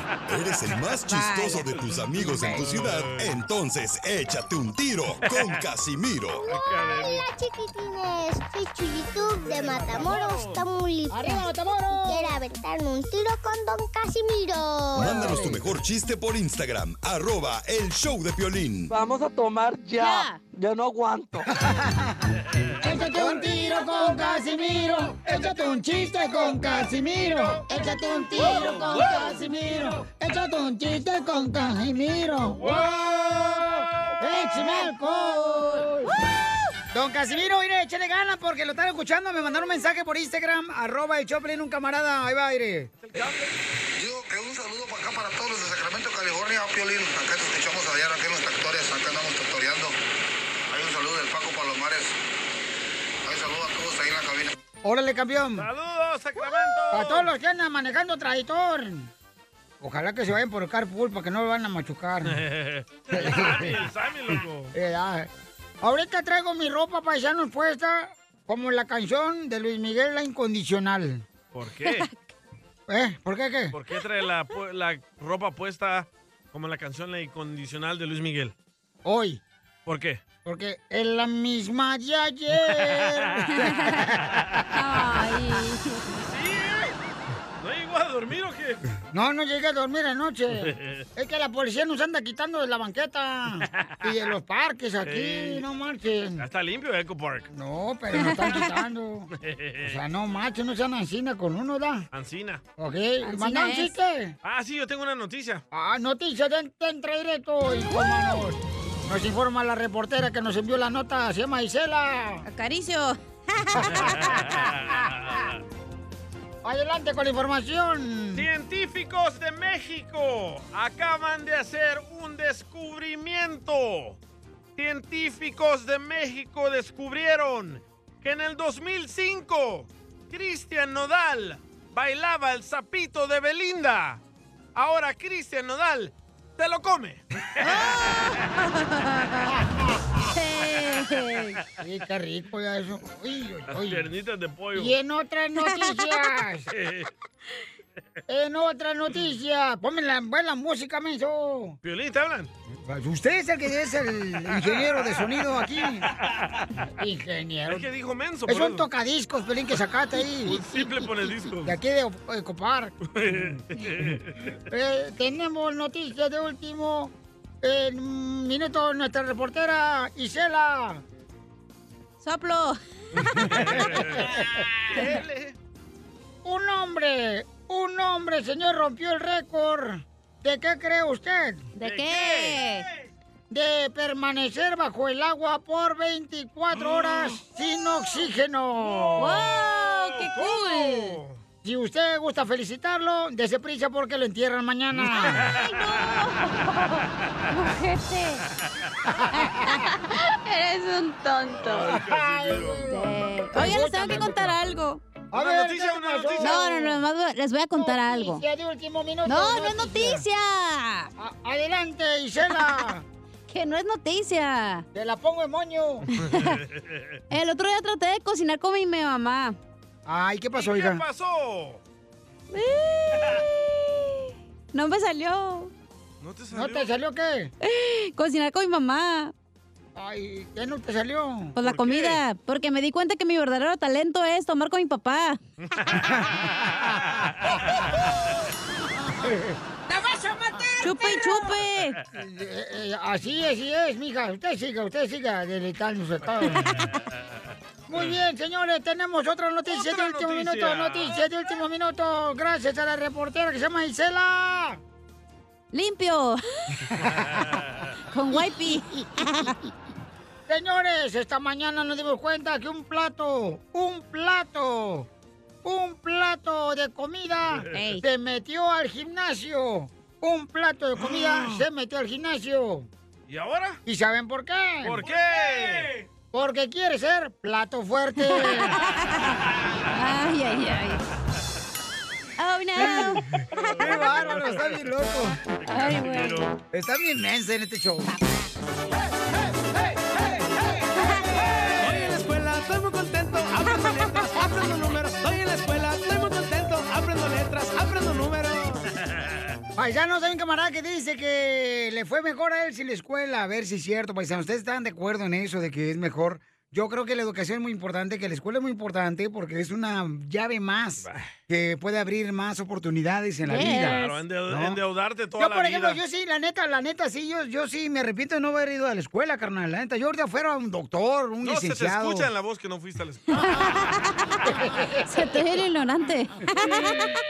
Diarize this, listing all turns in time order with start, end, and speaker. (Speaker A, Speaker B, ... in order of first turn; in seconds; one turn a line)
Speaker A: 0.3-6.4
Speaker B: 1.1-1.6
Speaker C: 2.1-2.7
Speaker D: 2.5-3.3
Speaker E: 6.3-15.3
Speaker D: 6.5-7.2
Speaker D: 9.4-10.6
Speaker C: 11.1-12.3
Speaker A: 14.9-18.9
Speaker C: 15.0-15.6
Speaker F: 18.9-21.5
Speaker B: 19.9-20.4
Speaker C: 21.5-36.1
Speaker B: 28.2-29.3
Speaker D: 28.4-29.2
Speaker D: 32.6-34.1
Speaker B: 34.6-34.9
Speaker C: 36.9-42.9
Speaker D: 43.0-43.5
Speaker G: 43.9-50.0
Speaker G: 50.7-52.2
Speaker G: 53.2-54.5
Speaker C: 54.8-55.7
Speaker D: 55.5-57.3
Speaker C: 56.9-59.1
Speaker C: 59.8-62.4
Speaker D: 62.2-64.7
Speaker C: 63.1-63.8
Speaker C: 64.7-65.3
Speaker C: 65.8-71.2
Speaker D: 71.5-72.1
Speaker B: 71.9-72.1
Speaker C: 72.9-73.7
Speaker D: 73.7-78.5
Speaker C: 79.0-79.4
Speaker D: 79.8-80.2
Speaker C: 80.4-84.3
Speaker B: 83.6-84.0
Speaker B: 84.7-86.1
Speaker D: 86.1-86.9
Speaker D: 87.6-88.8
Speaker C: 89.1-96.4
Speaker D: 90.6-91.0
Speaker D: 95.0-95.6
Speaker D: 96.4-97.5
Speaker C: 97.5-99.3
Speaker B: 98.2-98.7
Speaker D: 99.4-100.0
Speaker C: 99.8-102.0
Speaker D: 102.1-102.6
Speaker C: 102.8-104.3
Speaker B: 103.2-104.0
Speaker D: 104.4-105.6
Speaker C: 105.7-112.4
Speaker B: 112.4-114.3
Speaker C: 113.7-114.4
Speaker D: 114.3-115.4
Speaker C: 116.6-118.4
Speaker D: 118.3-124.2
Speaker D: 124.8-134.2
Speaker D: 134.7-138.2
Speaker B: 137.6-139.5
Speaker B: 140.3-141.6
Speaker C: 141.8-144.0
Speaker D: 143.7-144.9
Speaker C: 144.7-146.7
Speaker B: 145.7-146.0
Speaker D: 146.7-147.1
Speaker C: 148.3-151.8
Speaker D: 151.8-152.5
Speaker C: 152.8-156.1
Speaker D: 156.3-156.6
Speaker C: 157.0-157.8
Speaker D: 157.7-158.9
Speaker C: 158.5-160.8
Speaker D: 160.4-161.7
Speaker C: 161.6-163.4
Speaker D: 163.1-164.4
Speaker C: 164.7-171.0
Speaker B: 172.2-174.0
Speaker D: 173.5-175.5
Speaker C: 173.5-175.0
Speaker C: 176.4-181.7
Speaker B: 181.8-182.8
Speaker D: 181.8-182.7
Speaker C: 183.5-189.4
Speaker D: 186.8-187.3
Speaker D: 188.8-191.4
Speaker B: 189.2-191.2
Speaker C: 191.6-195.4
Speaker D: 195.3-195.7
Speaker B: 195.4-198.4
Speaker C: 199.1-199.7
Speaker B: 199.4-201.9
Speaker D: 201.4-202.9
Speaker C: 201.8-204.6
Speaker B: 202.9-205.0
Speaker C: 205.3-207.0
Speaker D: 205.3-206.7
Speaker B: 206.4-208.4
Speaker C: 207.7-210.2
Speaker B: 209.2-211.1
Speaker C: 211.2-213.0
Speaker B: 213.5-214.8
Speaker C: 214.9-216.1
Speaker D: 216.2-217.0
Speaker B: 216.2-216.6
Speaker B: 217.3-219.6
Speaker C: 220.1-221.0
Speaker D: 220.6-221.8
Speaker B: 222.5-225.7
Speaker D: 226.2-226.9
Speaker C: 226.5-227.5
Speaker B: 227.6-229.3
Speaker C: 229.9-231.6
Speaker B: 231.6-235.4
Speaker D: 231.6-232.2
Speaker D: 235.7-236.1
Speaker C: 236.1-237.1
Speaker C: 239.2-239.6
Speaker B: 240.8-242.0
Speaker C: 242.1-246.7
Speaker B: 246.6-246.9
Speaker C: 247.9-254.8
Speaker D: 249.7-251.2
Speaker B: 255.7-256.4
Speaker C: 256.9-257.2
Speaker B: 258.1-259.6
Speaker C: 258.3-258.8
Speaker C: 260.5-265.1
Speaker C: 265.6-272.9
Speaker B: 267.7-268.0
Speaker D: 271.1-271.6
Speaker D: 273.3-273.8
Speaker C: 273.9-275.0
Speaker D: 274.8-275.9
Speaker C: 276.3-278.7
Speaker B: 278.2-279.4
Speaker B: 279.9-281.0
Speaker B: 282.4-283.9
Speaker C: 282.8-285.4
Speaker D: 285.6-286.5
Speaker B: 285.7-286.4
Speaker C: 286.7-288.1
Speaker B: 291.0-291.5
Speaker H: 291.8-298.8
Speaker C: 299.8-314.0
Speaker D: 311.0-311.3
Speaker B: 313.4-314.2
Speaker D: 313.6-316.0
Speaker C: 314.5-314.8
Speaker C: 315.4-322.3
Speaker D: 321.4-323.7
Speaker B: 323.3-324.4
Speaker C: 324.5-325.1
Speaker B: 325.1-327.2